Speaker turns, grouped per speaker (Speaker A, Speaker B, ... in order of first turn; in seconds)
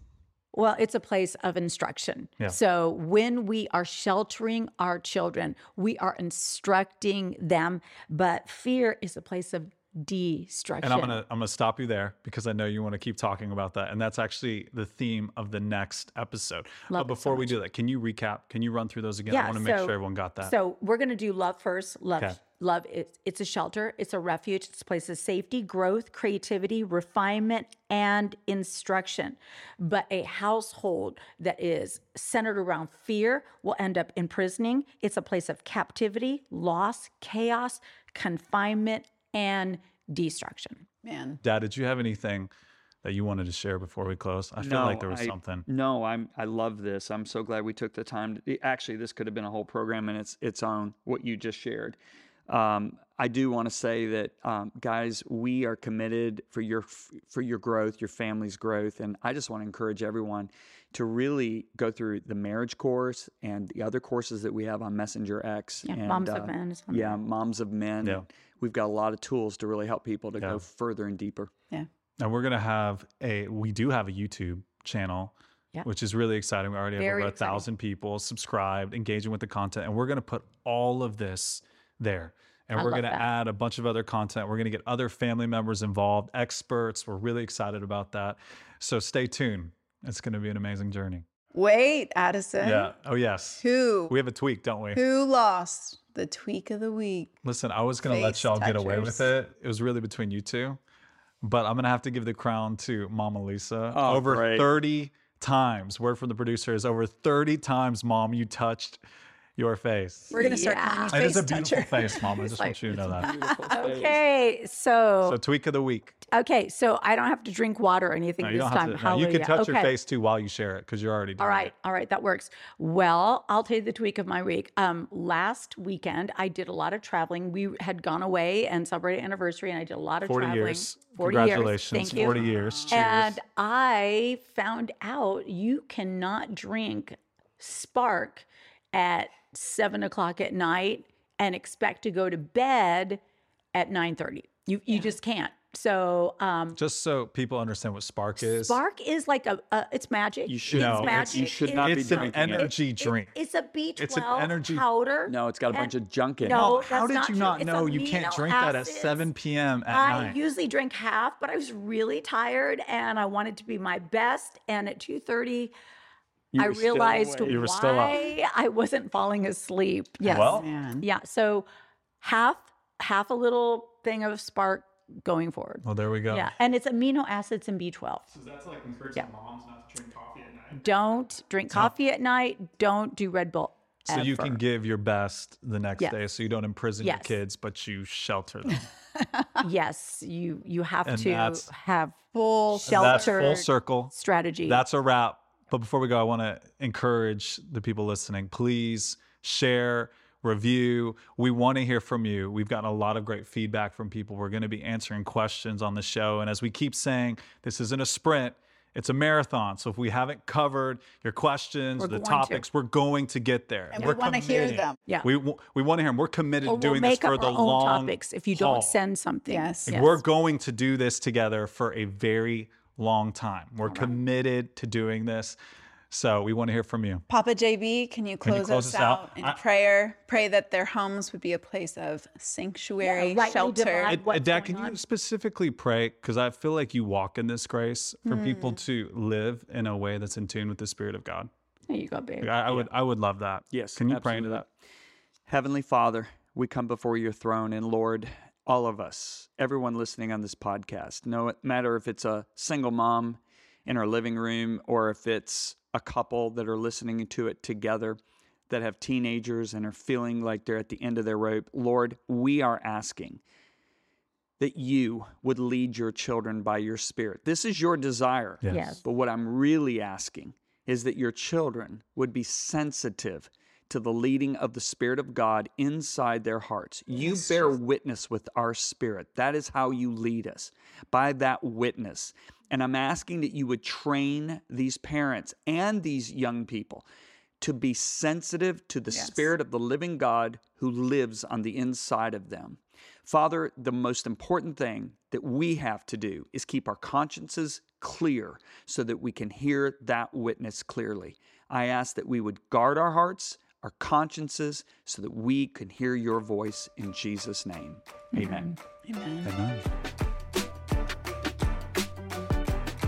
Speaker A: 0.5-11.2, 16.9-17.6, 19.3-40.9, 65.9-67.2, 77.0-77.6, 82.7-83.3, 110.4-111.4, 112.4-112.8, 113.7-115.4, 116.3-119.9, 121.4-143.2, 143.7-146.8, 148.4-155.9, 156.4-159.3, 159.9-165.7, 166.6-171.7, 172.2-178.3, 180.7-184.6, 187.0-187.4, 189.6-192.2, 192.7-194.8, 212.0-212.6, 216.6-220.2, 223.8-224.2, 233.0-235.0, 241.9-242.5, 268.7-269.0, 308.4-308.7
Speaker B: 10.8-20.5, 41.4-42.5, 43.0-45.6, 72.2-91.2, 92.6-95.0, 97.4-100.8, 101.4-109.0, 109.6-110.6, 111.1-113.3, 115.2-116.2, 118.4-121.7, 130.2-133.4, 146.7-148.8, 150.7-153.3, 154.0-154.8, 156.5-160.4, 167.4-168.3, 170.2-170.7, 175.8-176.5, 178.3-180.8, 184.1-188.9, 191.1-191.7, 192.9-194.1, 194.7-218.9, 219.9-225.6, 226.1-227.2, 228.4-229.6, 234.1-241.5, 242.4-244.7, 268.6-268.9, 309.4-309.8
Speaker C: 41.0-41.4, 91.5-92.9, 93.6-94.1, 94.9-97.3, 98.0-99.3, 110.3-113.9, 132.5-133.0, 170.3-171.1, 192.3-193.7, 213.9-215.0, 219.5-220.1, 227.3-234.2, 238.3-238.8, 277.1-277.8, 289.1-289.4, 309.0-309.5
Speaker D: 44.6-52.0, 52.5-71.5, 103.9-104.7, 113.1-114.2, 150.5-152.7, 155.3-156.6, 166.5-167.6, 243.7-244.7, 245.5-258.2, 258.7-263.4, 264.6-287.1, 287.6-308.7